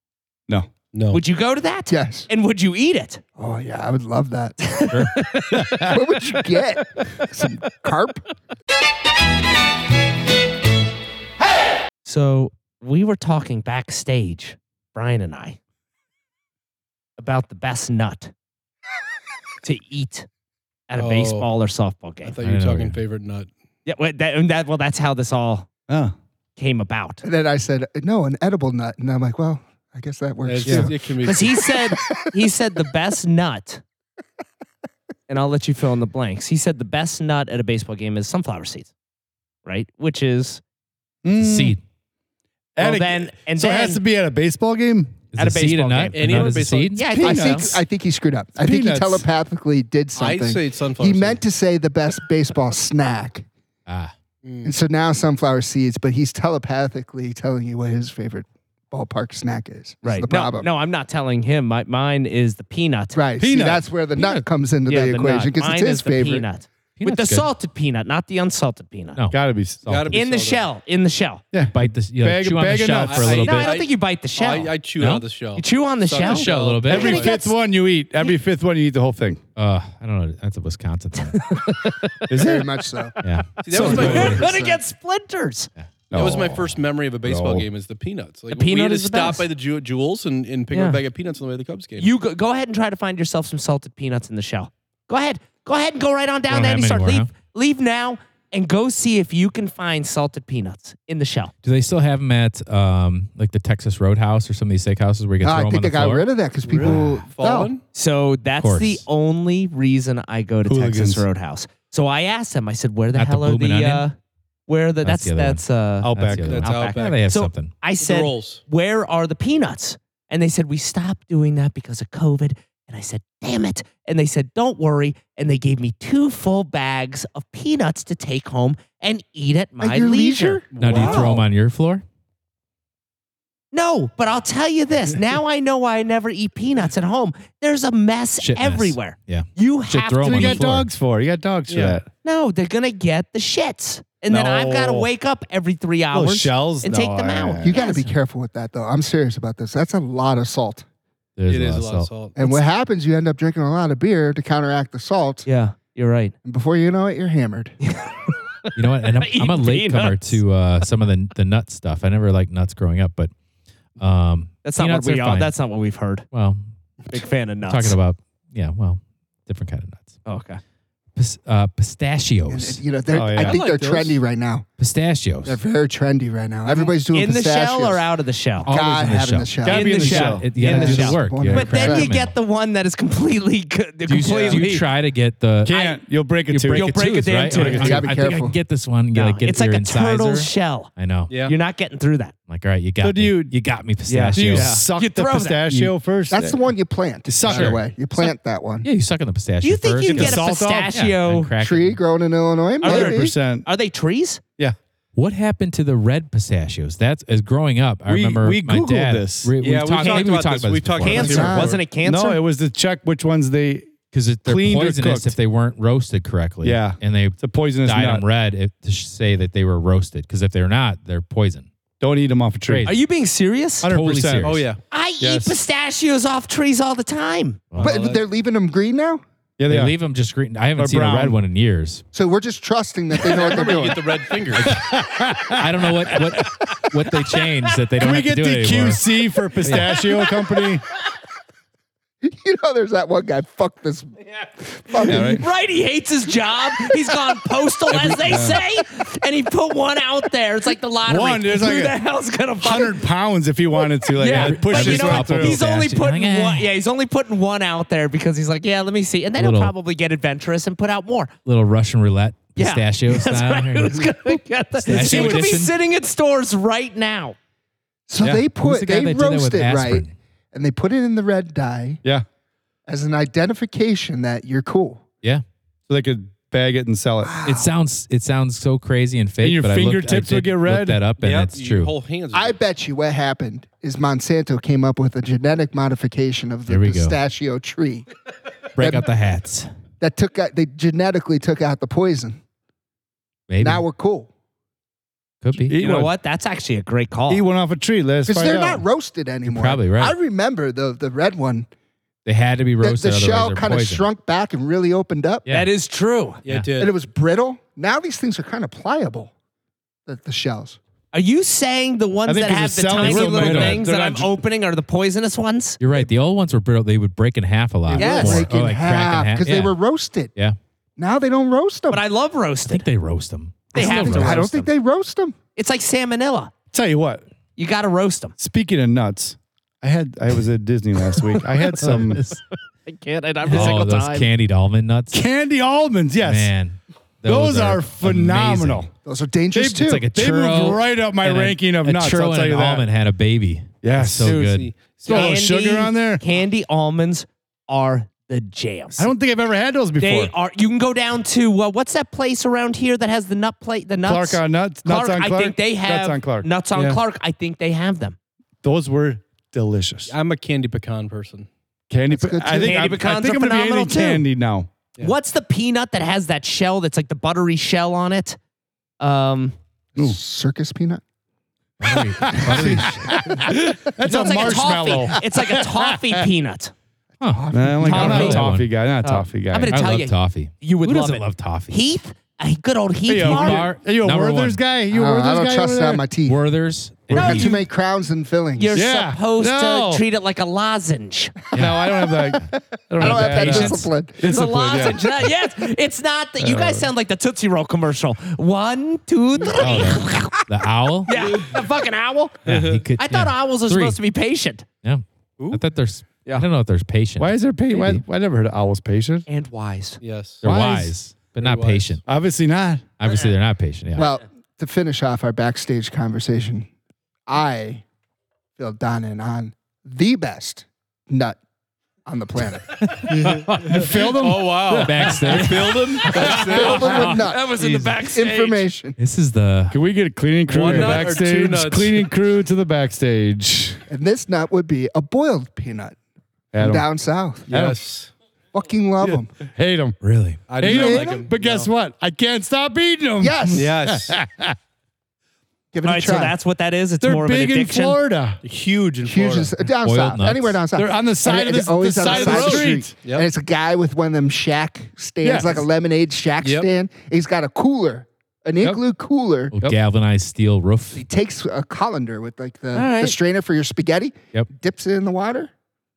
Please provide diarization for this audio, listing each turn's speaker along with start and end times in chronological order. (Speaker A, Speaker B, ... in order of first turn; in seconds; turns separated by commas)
Speaker A: 0.9-1.2, Speaker B: 1.1-3.2, Speaker C: 1.9-2.3, Speaker C: 3.4-4.6, Speaker B: 4.6-5.7, Speaker D: 5.5-6.0, Speaker C: 5.8-8.3, Speaker B: 12.0-15.6, Speaker B: 17.2-18.3, Speaker B: 19.6-20.3, Speaker B: 20.9-22.3, Speaker A: 20.9-21.5, Speaker A: 22.2-23.5, Speaker E: 22.4-23.0, Speaker B: 23.8-25.7, Speaker D: 25.9-26.1, Speaker B: 26.6-27.2, Speaker C: 27.2-32.3, Speaker A: 30.4-31.5, Speaker B: 31.2-33.8, Speaker B: 35.3-38.9, Speaker B: 39.6-40.6, Speaker D: 41.2-41.8, Speaker E: 41.4-41.8, Speaker D: 42.8-45.2, Speaker B: 42.8-44.0, Speaker E: 45.3-47.1, Speaker B: 45.4-47.8, Speaker A: 46.1-47.0, Speaker C: 47.1-53.5, Speaker D: 47.2-47.6, Speaker D: 48.6-49.2, Speaker A: 50.1-51.4, Speaker E: 53.9-54.1, Speaker A: 54.4-54.8, Speaker C: 54.6-60.7, Speaker B: 60.0-63.2, Speaker C: 63.1-66.5, Speaker D: 63.4-63.8, Speaker E: 64.2-64.4, Speaker B: 64.8-69.2, Speaker E: 67.0-67.5, Speaker E: 69.2-70.2, Speaker D: 69.3-69.9, Speaker A: 69.8-70.7, Speaker B: 70.1-71.4, Speaker D: 71.5-73.3, Speaker E: 71.7-73.8, Speaker A: 73.0-77.3, Speaker B: 73.2-74.7, Speaker E: 75.0-75.3, Speaker B: 75.5-77.5, Speaker E: 76.2-77.2, Speaker D: 76.8-79.4, Speaker E: 79.5-81.6, Speaker B: 81.2-82.3, Speaker D: 82.3-82.7, Speaker C: 82.4-83.2, Speaker E: 83.2-84.4, Speaker A: 83.6-84.5, Speaker C: 83.7-84.8, Speaker B: 83.7-85.7, Speaker D: 83.8-84.4, Speaker E: 85.8-86.7, Speaker D: 86.1-86.5, Speaker A: 86.1-92.1, Speaker D: 87.2-87.7, Speaker B: 88.5-89.5, Speaker B: 90.7-91.0, Speaker B: 92.0-101.5, Speaker E: 96.5-97.3, Speaker E: 101.6-106.2, Speaker C: 105.4-107.7, Speaker A: 106.6-107.8, Speaker B: 107.9-114.1, Speaker E: 108.6-109.0, Speaker D: 110.7-111.2, Speaker E: 113.1-114.0, Speaker B: 114.7-131.4, Speaker E: 115.0-117.7, Speaker D: 116.0-116.6, Speaker A: 116.4-117.2, Speaker A: 118.0-118.6, Speaker C: 129.8-131.4, Speaker A: 130.7-131.3, Speaker E: 130.8-132.0, Speaker B: 133.7-140.6, Speaker E: 138.4-140.9, Speaker D: 140.2-142.0, Speaker A: 141.7-142.0, Speaker B: 142.2-148.1, Speaker D: 144.3-145.1, Speaker D: 146.1-147.7, Speaker C: 147.6-150.8, Speaker E: 151.4-152.1, Speaker A: 151.4-152.4, Speaker C: 152.3-155.4, Speaker B: 155.4-156.3, Speaker C: 156.4-157.8, Speaker B: 157.8-160.4, Speaker E: 158.8-163.3, Speaker E: 164.0-165.5, Speaker B: 164.6-166.2, Speaker E: 166.3-166.6, Speaker B: 167.1-168.0, Speaker E: 167.7-170.2, Speaker B: 170.2-170.6, Speaker E: 171.1-172.8, Speaker C: 172.5-174.6, Speaker D: 173.1-173.6, Speaker A: 173.3-174.2, Speaker E: 174.8-175.6, Speaker C: 175.4-178.1, Speaker B: 176.7-178.7, Speaker E: 178.6-179.5, Speaker C: 178.7-182.1, Speaker D: 179.6-181.1, Speaker B: 179.7-184.8, Speaker E: 180.1-182.3, Speaker A: 184.1-184.8, Speaker E: 184.3-185.8, Speaker D: 185.7-186.9, Speaker B: 185.7-186.0, Speaker E: 186.5-191.3, Speaker B: 186.7-188.0, Speaker D: 187.5-188.0, Speaker C: 187.6-188.6, Speaker B: 189.1-190.9, Speaker A: 191.3-191.5, Speaker B: 191.4-192.3, Speaker E: 192.5-194.8, Speaker D: 193.0-193.5, Speaker B: 194.1-195.9, Speaker D: 194.1-196.6, Speaker C: 196.3-198.9, Speaker D: 197.2-197.8, Speaker E: 197.5-197.8, Speaker E: 198.8-202.0, Speaker B: 199.6-201.5, Speaker D: 200.1-200.9, Speaker C: 201.6-203.3, Speaker B: 202.8-204.4, Speaker D: 202.8-203.7, Speaker E: 205.1-211.6, Speaker D: 208.1-209.5, Speaker A: 209.6-211.8, Speaker B: 209.9-210.3, Speaker B: 211.0-212.4, Speaker C: 211.1-211.8, Speaker D: 212.0-215.3, Speaker E: 214.1-221.7, Speaker D: 216.6-218.2, Speaker D: 222.0-222.9, Speaker E: 222.7-222.9, Speaker B: 222.8-223.9, Speaker D: 223.8-224.7, Speaker E: 223.9-224.6, Speaker A: 224.4-224.8, Speaker B: 224.9-227.6, Speaker D: 225.2-225.6, Speaker A: 227.8-228.3, Speaker C: 227.8-229.2, Speaker D: 229.6-229.9, Speaker E: 229.7-232.0, Speaker D: 230.8-231.4, Speaker C: 232.1-234.2, Speaker A: 233.3-234.8, Speaker D: 234.6-236.4, Speaker E: 235.6-239.0, Speaker D: 238.0-240.8, Speaker E: 239.6-239.9, Speaker C: 242.2-245.4, Speaker B: 245.0-253.0, Speaker D: 245.0-245.4, Speaker D: 247.9-248.6, Speaker D: 251.0-252.0, Speaker D: 252.6-255.7, Speaker B: 253.8-261.3, Speaker E: 254.2-256.7, Speaker E: 259.4-259.7, Speaker E: 261.4-264.3, Speaker B: 262.6-267.4, Speaker E: 264.8-265.7, Speaker D: 264.9-265.5, Speaker C: 268.1-272.0, Speaker E: 268.6-270.1, Speaker C: 272.9-275.0, Speaker D: 275.9-277.3, Speaker C: 277.2-277.7, Speaker E: 277.4-281.9, Speaker D: 279.4-281.0, Speaker A: 281.2-282.6, Speaker C: 282.3-288.1, Speaker E: 286.7-287.2, Speaker E: 288.8-289.7, Speaker C: 288.8-289.1, Speaker C: 290.0-292.4, Speaker E: 293.5-293.8, Speaker C: 293.6-294.3, Speaker E: 295.4-295.7, Speaker D: 295.7-296.1, Speaker B: 295.8-297.4, Speaker D: 297.3-298.8, Speaker C: 298.2-301.7, Speaker E: 299.4-300.1, Speaker E: 302.2-304.1, Speaker C: 302.8-305.4, Speaker B: 305.5-306.4, Speaker A: 306.4-306.9, Speaker C: 306.8-309.3, Speaker C: 310.1-310.8, Speaker B: 311.1-315.8, Speaker D: 312.2-314.3, Speaker E: 313.0-313.8, Speaker E: 315.8-319.8, Speaker D: 317.9-318.4, Speaker C: 317.9-320.3, Speaker B: 318.0-318.5, Speaker C: 321.0-322.0, Speaker B: 321.9-322.8, Speaker E: 322.7-324.4, Speaker B: 323.7-324.7, Speaker C: 323.7-325.3, Speaker B: 325.6-326.5, Speaker D: 326.7-327.2, Speaker B: 327.6-328.3, Speaker D: 328.4-332.2, Speaker B: 331.1-334.3, Speaker E: 331.8-332.4, Speaker E: 333.4-335.2, Speaker D: 335.1-336.5, Speaker E: 336.2-338.9, Speaker D: 337.2-338.9, Speaker C: 339.0-340.1, Speaker D: 339.5-342.9, Speaker E: 339.8-344.7, Speaker D: 343.8-344.4, Speaker A: 344.1-345.3, Speaker D: 345.0-346.2, Speaker B: 345.0-349.1, Speaker D: 349.0-350.3, Speaker B: 350.0-358.1, Speaker D: 354.0-356.5, Speaker A: 356.7-357.0, Speaker D: 358.6-360.1, Speaker A: 360.1-361.5, Speaker D: 361.9-364.7, Speaker C: 362.1-362.9, Speaker B: 362.6-364.2, Speaker B: 365.0-368.4, Speaker B: 369.0-369.5, Speaker C: 370.0-371.0, Speaker E: 371.8-373.1, Speaker D: 371.9-376.3, Speaker C: 372.4-373.0, Speaker B: 374.0-376.7, Speaker C: 377.2-378.4, Speaker E: 377.2-378.7, Speaker D: 377.5-379.8, Speaker B: 377.8-378.5, Speaker B: 379.0-383.7, Speaker E: 379.7-381.8, Speaker D: 383.1-386.1, Speaker E: 383.2-384.6, Speaker C: 384.9-386.4, Speaker E: 386.2-387.6, Speaker D: 387.1-387.4, Speaker C: 387.1-388.8, Speaker B: 387.1-387.5, Speaker B: 388.5-391.5, Speaker D: 388.7-390.0, Speaker E: 391.5-391.8, Speaker D: 391.5-395.1, Speaker C: 391.6-394.2, Speaker E: 393.0-393.6, Speaker B: 393.1-400.4, Speaker D: 396.4-396.9, Speaker D: 399.5-400.0, Speaker E: 399.6-401.1, Speaker B: 401.1-402.4, Speaker A: 402.4-402.8, Speaker E: 402.4-404.0, Speaker B: 403.0-404.6, Speaker E: 404.8-408.0, Speaker D: 407.2-409.2, Speaker B: 409.3-410.0, Speaker A: 410.0-410.4, Speaker E: 410.4-412.0, Speaker D: 410.4-410.9, Speaker A: 411.4-412.0, Speaker D: 412.1-412.8, Speaker E: 413.0-414.1, Speaker C: 413.9-416.7, Speaker C: 417.3-417.8, Speaker C: 418.6-421.4, Speaker C: 422.1-422.9, Speaker A: 422.9-427.8, Speaker E: 423.2-424.0, Speaker D: 423.5-425.4, Speaker E: 424.7-427.1, Speaker C: 426.0-428.9, Speaker B: 427.0-428.7, Speaker E: 429.0-429.8, Speaker D: 429.7-433.8, Speaker A: 430.5-432.1, Speaker C: 430.7-431.0, Speaker C: 433.9-435.9, Speaker D: 436.5-436.9, Speaker C: 436.6-437.5, Speaker A: 437.5-438.1, Speaker D: 437.5-437.8, Speaker C: 438.5-439.3, Speaker D: 439.0-440.0, Speaker E: 440.0-440.5, Speaker A: 440.5-441.7, Speaker D: 440.6-444.6, Speaker C: 440.6-441.3, Speaker C: 443.2-443.7, Speaker A: 443.5-444.1, Speaker C: 445.7-446.4, Speaker B: 445.8-448.0, Speaker D: 447.0-448.4, Speaker A: 448.4-449.6, Speaker C: 449.0-459.5, Speaker E: 449.7-450.6, Speaker D: 450.7-452.9, Speaker A: 452.0-453.3, Speaker D: 455.2-455.6, Speaker A: 456.4-456.7, Speaker E: 459.5-461.0, Speaker C: 460.9-465.5, Speaker B: 462.7-463.1